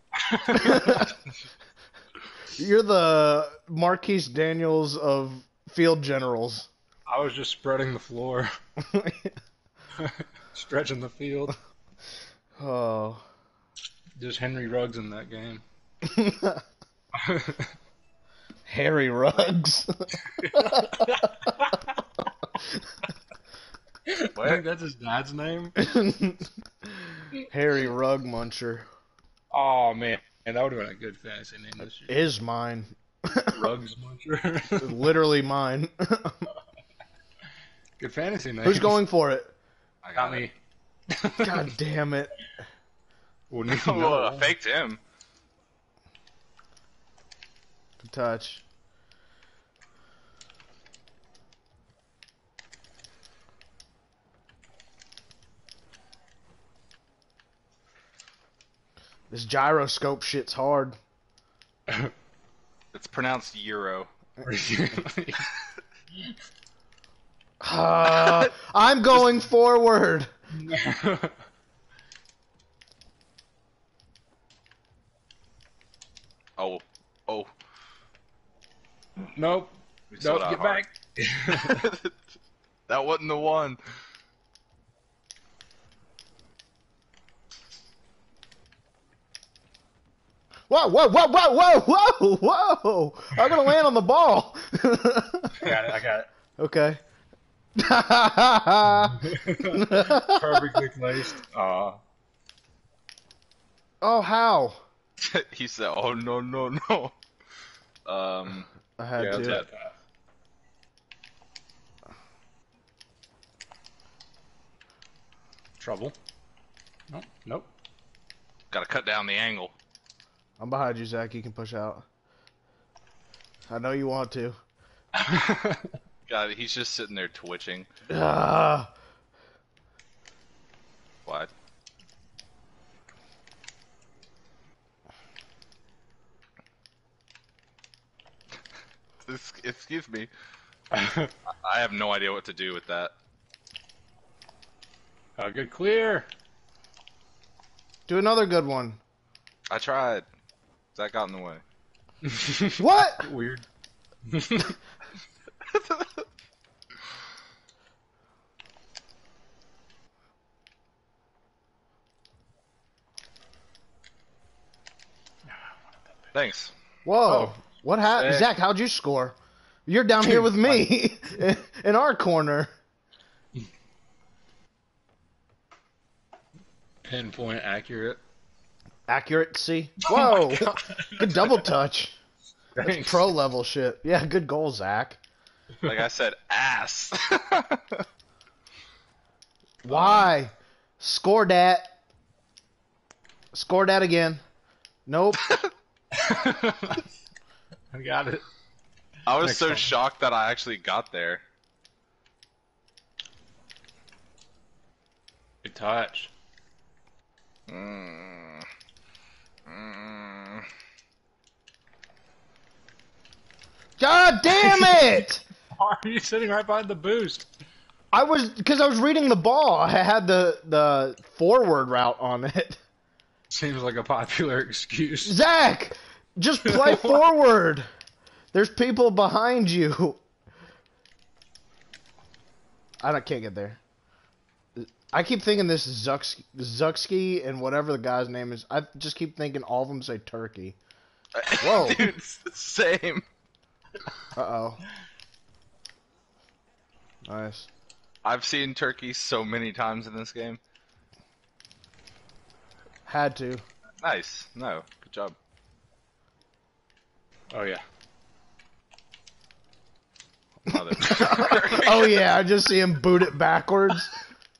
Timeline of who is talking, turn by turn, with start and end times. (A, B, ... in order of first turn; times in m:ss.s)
0:00.2-0:01.0 A
0:00.5-0:01.1 B
0:02.6-0:06.7 B
0:07.1-0:08.5 A
0:08.8-0:09.4 B
0:10.0-0:11.6 A
0:12.6-0:13.2 B
0:14.2-0:15.6 A
0:16.0-0:16.6 B
0:17.1-0:17.7 A
0:18.7-0:21.2 B
0:20.2-0:21.9 A
0:24.1-0:25.8 A
0:24.3-0:24.6 C
0:25.8-0:26.5 B
0:27.4-0:28.8 B
0:29.5-0:32.2 A
0:32.1-0:33.7 B
0:33.5-0:35.0 A
0:34.8-0:36.5 B
0:38.0-0:39.0 A
0:38.6-0:39.5 B
0:40.0-0:40.5 C
0:40.1-0:40.5 A
0:41.1-0:41.7 A
0:41.4-0:42.3 B
0:43.5-0:44.5 A
0:43.7-0:45.0 C
0:48.0-0:48.6 B
0:59.3-1:01.0 B
1:01.9-1:02.1 A
1:02.9-1:04.1 C
1:04.4-1:05.4 A
1:07.6-1:10.3 B
1:10.5-1:11.4 A
1:16.6-1:17.5 C
1:19.2-1:21.9 A
1:20.1-1:20.8 C
1:21.5-1:22.1 C
1:22.9-1:23.8 C
1:30.7-1:35.8 B
1:35.5-1:36.3 A
1:36.6-1:37.0 B
1:37.8-1:40.6 B
1:39.2-1:42.0 A
1:44.0-1:44.8 B
1:45.2-1:47.1 C
1:48.0-1:48.7 C
1:49.0-1:49.6 B
1:49.2-1:49.9 A
1:49.3-1:49.6 C
1:55.8-1:56.1 A
1:57.1-1:57.7 A
1:58.7-1:59.7 C
2:00.6-2:02.0 B
2:03.7-2:04.6 B
2:05.1-2:05.9 A
2:06.3-2:07.9 C
2:08.1-2:08.9 B
2:11.2-2:11.5 C
2:19.2-2:20.3 C
2:20.9-2:21.3 A
2:21.4-2:23.1 C
2:25.4-2:26.3 A
2:28.1-2:29.0 B
2:29.7-2:30.2 C
2:30.9-2:31.6 C
2:32.2-2:33.6 A
2:32.8-2:33.3 B
2:34.2-2:34.8 A
2:35.7-2:36.2 C
2:46.3-2:46.7 C
2:47.0-2:49.4 B
2:47.2-2:48.5 A
2:49.9-2:52.7 B
2:50.2-2:50.9 A
2:57.0-2:58.2 A
2:59.1-3:02.2 B
3:00.0-3:01.3 A
3:02.7-3:03.3 A
3:02.8-3:05.2 B
3:05.8-3:08.0 C
3:09.8-3:11.9 B
3:09.9-3:10.3 C
3:13.5-3:14.4 B
3:15.1-3:15.4 B
3:16.1-3:17.0 A
3:17.9-3:18.4 A
3:19.2-3:21.4 C
3:19.3-3:19.9 A
3:25.6-3:26.3 A
3:27.7-3:28.7 C
3:29.7-3:30.7 C
3:34.0-3:35.4 B
3:34.5-3:35.2 A
3:35.8-3:37.5 A
3:38.1-3:42.8 B
3:43.5-3:45.4 A
3:45.2-3:47.8 B
3:46.6-3:47.1 A
3:48.5-3:50.2 B
3:53.0-3:53.8 B
3:54.8-4:00.8 B
4:01.3-4:03.2 C
4:01.6-4:02.1 B
4:04.3-4:04.8 B
4:07.2-4:07.7 B
4:08.2-4:10.6 C
4:13.0-4:13.6 B
4:14.0-4:15.4 C
4:17.5-4:17.8 A
4:20.7-4:24.2 B
4:20.7-4:22.3 C